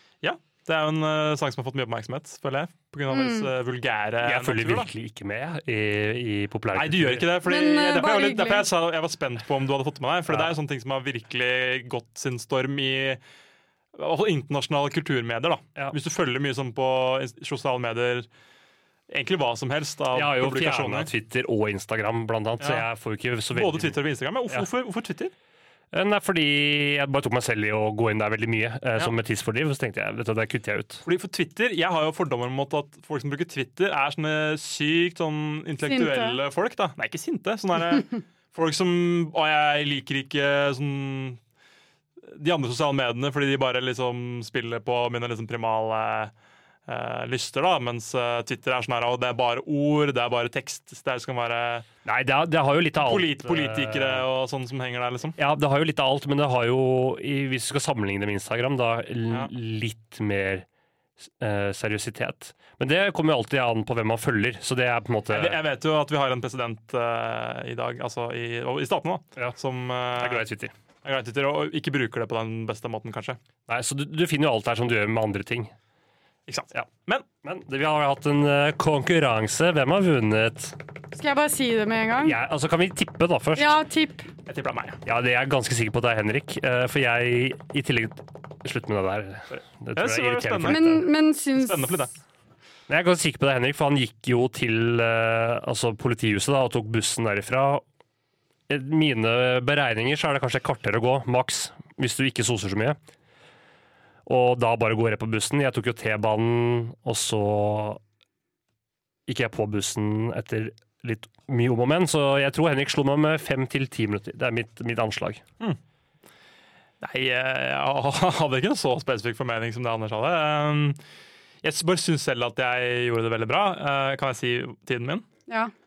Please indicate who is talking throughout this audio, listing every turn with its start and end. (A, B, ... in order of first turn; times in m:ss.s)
0:00.2-0:04.9 A
0:03.1-0:03.5 B
0:04.2-0:07.3 C
0:06.7-0:13.2 A
0:07.4-0:08.7 B
0:10.3-0:10.6 C
0:13.9-0:18.3 A
0:19.1-0:21.1 A
0:20.1-0:24.0 C
0:22.6-0:22.8 A
0:23.5-0:25.3 A
0:25.9-0:31.0 C
0:31.0-0:41.4 A
0:35.8-0:36.4 B
0:42.2-0:46.3 A
0:46.9-0:51.9 A
0:52.0-0:54.2 C
0:53.0-0:55.4 A
0:55.4-1:00.6 C
1:01.4-1:05.6 C
1:05.3-1:10.4 A
1:10.2-1:10.7 C
1:11.0-1:13.4 A
1:13.7-1:15.7 C
1:16.5-1:17.2 A
1:17.4-1:20.8 C
1:21.1-1:22.4 B
1:22.2-1:23.8 C
1:23.6-1:24.3 B
1:24.4-1:25.0 A
1:25.0-1:31.0 C
1:29.5-1:30.8 A
1:30.6-1:31.9 B
1:31.5-1:32.1 A
1:32.9-1:37.8 C
1:38.7-1:43.0 C
1:44.2-1:48.0 C
1:49.3-1:55.4 C
1:57.0-2:01.0 A
2:01.6-2:05.2 A